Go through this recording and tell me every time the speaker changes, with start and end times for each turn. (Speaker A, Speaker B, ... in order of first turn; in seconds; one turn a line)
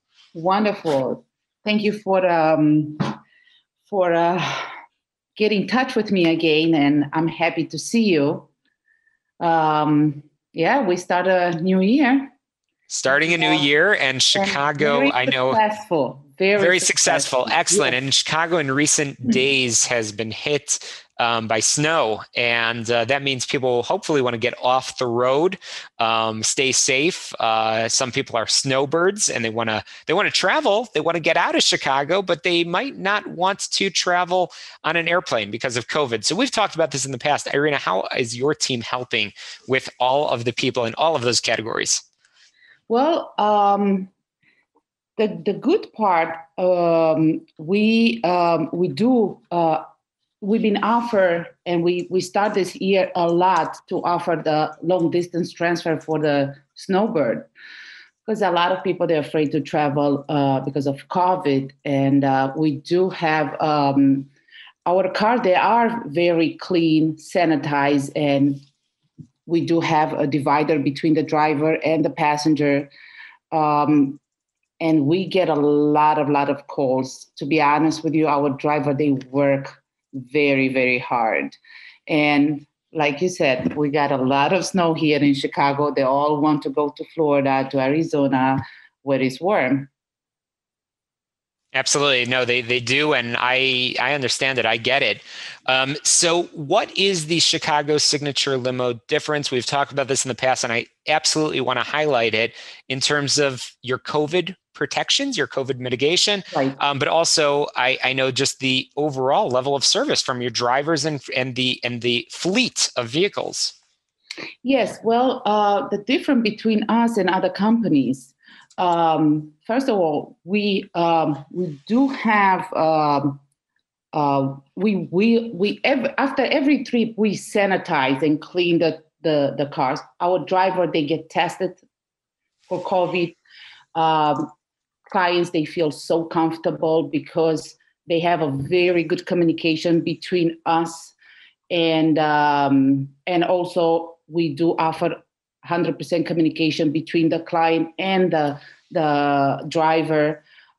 Speaker A: 0.3-3.1
Speaker A: 3.9-4.7
Speaker A: 5.4-8.5
Speaker A: 9.4-12.3
Speaker B: 12.9-15.6
Speaker A: 13.1-13.7
Speaker A: 14.3-18.0
Speaker B: 16.6-42.0
Speaker A: 42.9-44.1
Speaker A: 45.2-49.8
Speaker A: 50.4-57.5
Speaker A: 58.3-64.3
Speaker A: 64.9-68.6
Speaker A: 69.5-72.9
Speaker A: 73.5-74.2
Speaker A: 74.8-89.9
Speaker B: 91.7-113.8
Speaker A: 114.6-123.4
Speaker A: 124.1-131.8
Speaker A: 132.7-133.4
Speaker A: 133.9-134.5
Speaker A: 135.1-141.2
Speaker A: 141.7-150.4